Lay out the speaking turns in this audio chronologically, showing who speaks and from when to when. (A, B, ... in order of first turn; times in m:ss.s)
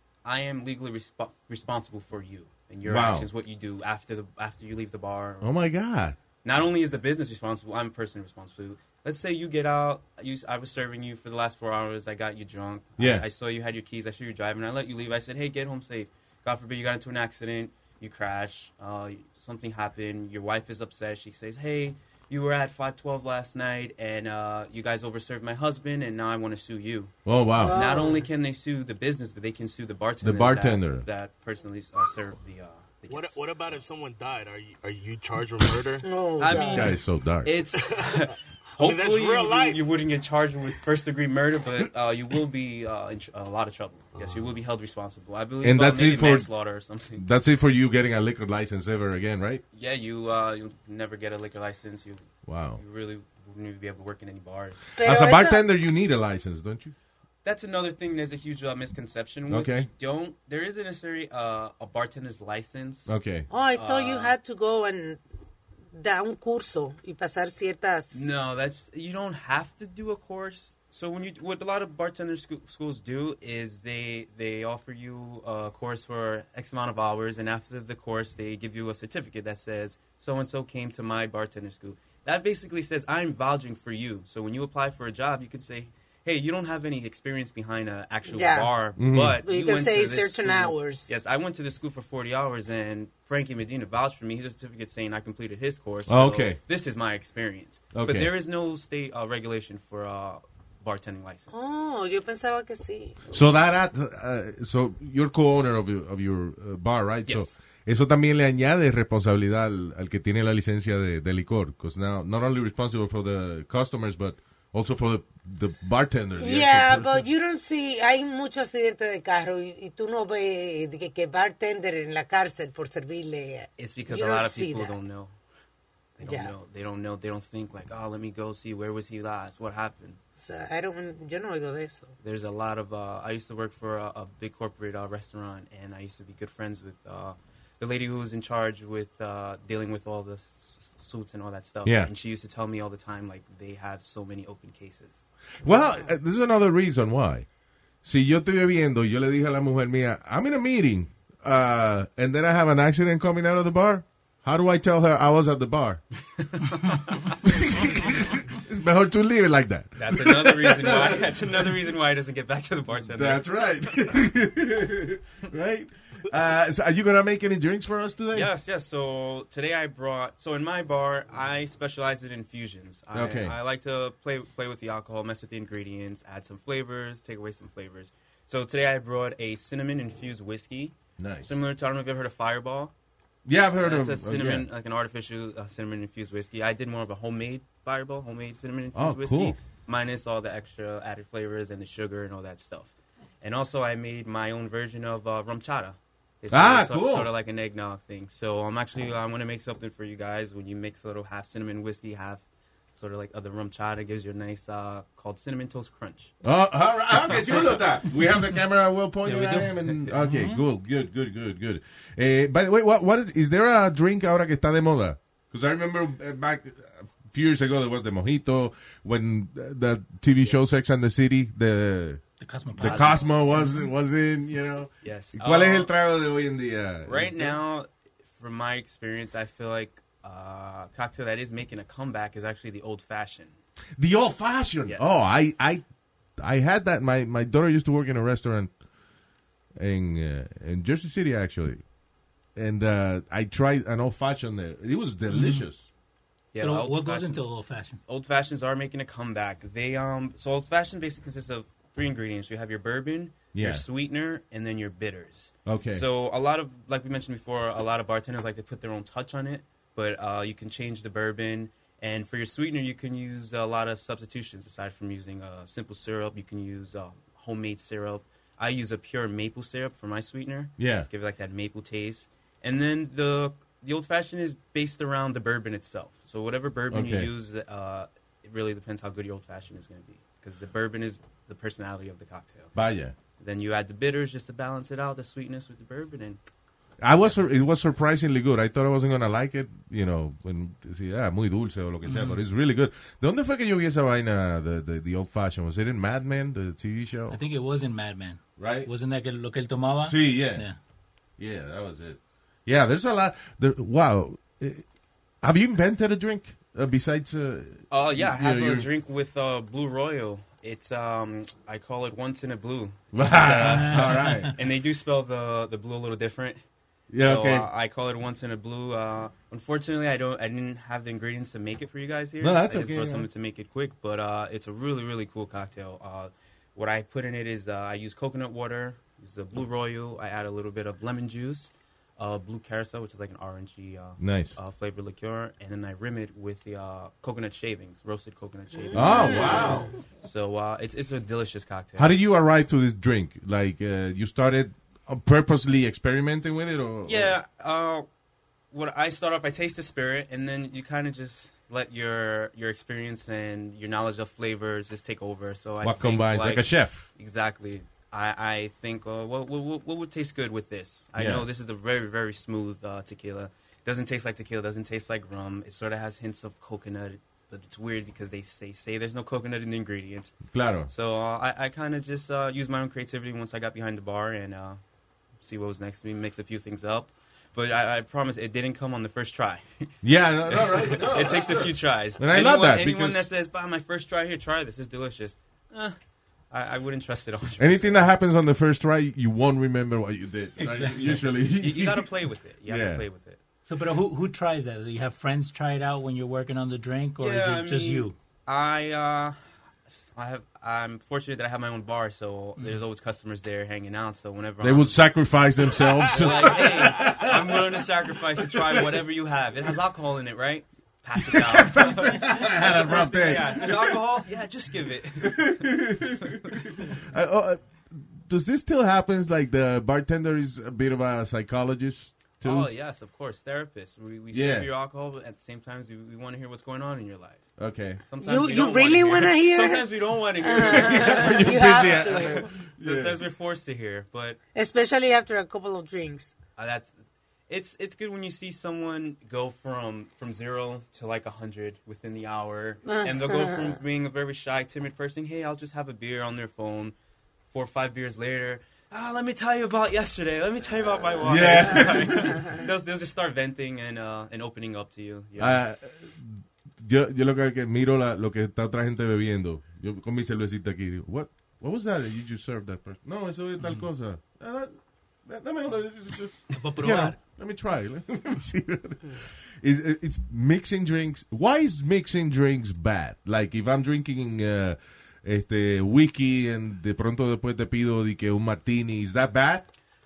0:00.2-0:05.5 A
0:02.8-0:03.3 B
0:05.4-0:06.2 B
0:06.4-0:33.8 A
0:13.0-0:13.2 B
0:27.2-0:27.8 B
0:27.6-0:28.2 C
0:30.2-0:31.0 B
0:33.1-0:36.0 D
0:36.0-0:36.9 C
0:36.4-0:47.2 A
0:36.6-0:37.5 B
0:37.8-0:39.8 D
0:44.2-0:44.5 D
0:45.6-0:46.5 B
0:47.2-0:49.6 B
0:49.7-0:54.8 A
0:52.4-0:52.8 B
0:55.0-0:55.6 C
0:55.0-0:56.9 B
0:57.4-1:03.2 A
0:59.5-0:59.9 B
1:03.1-1:03.5 B
1:03.5-1:05.2 C
1:03.7-1:04.3 A
1:05.9-1:08.2 C
1:08.1-1:41.7 A
1:28.3-1:28.7 C
1:29.0-1:29.4 B
1:29.4-1:31.1 C
1:36.1-1:36.6 B
1:37.9-1:38.3 B
1:41.5-1:43.4 C
1:43.3-1:57.3 B
1:47.3-1:47.5 A
1:56.4-2:05.0 C
2:03.8-2:05.3 A
2:06.2-2:10.2 A
2:06.2-2:06.5 C
2:10.4-2:12.1 C
2:12.2-2:25.2 A
2:21.8-2:22.1 B
2:25.6-2:27.4 B
2:28.0-2:36.0 B
2:36.4-2:37.4 A
2:37.4-2:41.3 B
2:40.0-2:44.1 A
2:43.0-2:48.5 B
2:48.3-3:02.9 A
2:53.1-2:53.6 B
3:01.2-3:01.5 B
3:03.4-3:04.7 B
3:03.8-3:22.4 A
3:08.9-3:09.6 B
3:16.5-3:17.3 B
3:22.9-3:26.3 A
3:26.4-3:42.2 B
3:27.2-3:27.8 A
3:29.2-3:30.6 E
3:42.4-3:43.8 E
3:42.8-3:47.6 B
3:42.8-3:43.3 A
3:45.0-3:45.9 A
3:47.0-3:53.6 A
3:54.0-3:55.8 B
3:54.9-3:55.3 A
3:56.4-3:58.7 B
3:59.8-4:01.8 B
4:02.5-4:05.9 B
4:05.3-4:05.6 E
4:06.5-4:07.5 A
4:06.6-4:08.0 E
4:08.0-4:42.7 A
4:13.5-4:13.8 B
4:15.6-4:16.0 B
4:30.8-4:31.1 B
4:36.9-4:37.3 B
4:42.8-4:43.1 B
4:43.4-4:46.4 A
4:47.0-4:57.4 B
4:52.0-4:52.4 E
4:57.3-5:00.8 E
4:58.6-4:58.9 B
5:00.0-5:00.6 B
5:01.4-5:04.8 B
5:05.4-5:08.9 B
5:07.9-5:16.6 A
5:13.1-5:14.5 B
5:13.6-5:14.5 E
5:17.1-5:17.7 B
5:17.2-5:42.2 A
5:22.4-5:23.3 B
5:34.2-5:34.6 B
5:38.7-5:39.9 C
5:38.9-5:39.9 B
5:42.0-5:47.4 B
5:47.0-5:48.1 A
5:48.7-6:14.8 A
5:55.8-5:57.1 B
6:01.2-6:01.4 B
6:10.5-6:10.9 B
6:15.4-6:19.9 A
6:20.0-6:23.3 B
6:20.5-6:26.0 A
6:26.5-6:28.0 A
6:27.6-6:32.1 B
6:30.6-6:31.2 E
6:31.6-6:33.4 A
6:32.6-6:33.0 B
6:33.6-6:38.1 E
6:37.2-6:39.4 A
6:39.9-6:45.0 A
6:44.6-6:47.8 B
6:46.0-6:56.6 A
6:48.4-6:48.8 B
6:51.2-6:54.0 B
6:55.2-7:02.7 B
7:02.4-7:07.4 A
7:04.3-7:04.7 B
7:07.6-7:08.0 B
7:08.0-7:14.4 A
7:08.2-7:12.5 C
7:10.6-7:13.2 B
7:14.5-7:16.3 C
7:16.6-7:17.0 A
7:17.5-7:26.9 A
7:22.9-7:23.7 C
7:27.5-7:35.6 A
7:31.2-7:32.5 B
7:35.4-7:44.8 B
7:43.6-7:43.9 E
7:45.2-7:59.7 B
7:46.5-7:47.2 E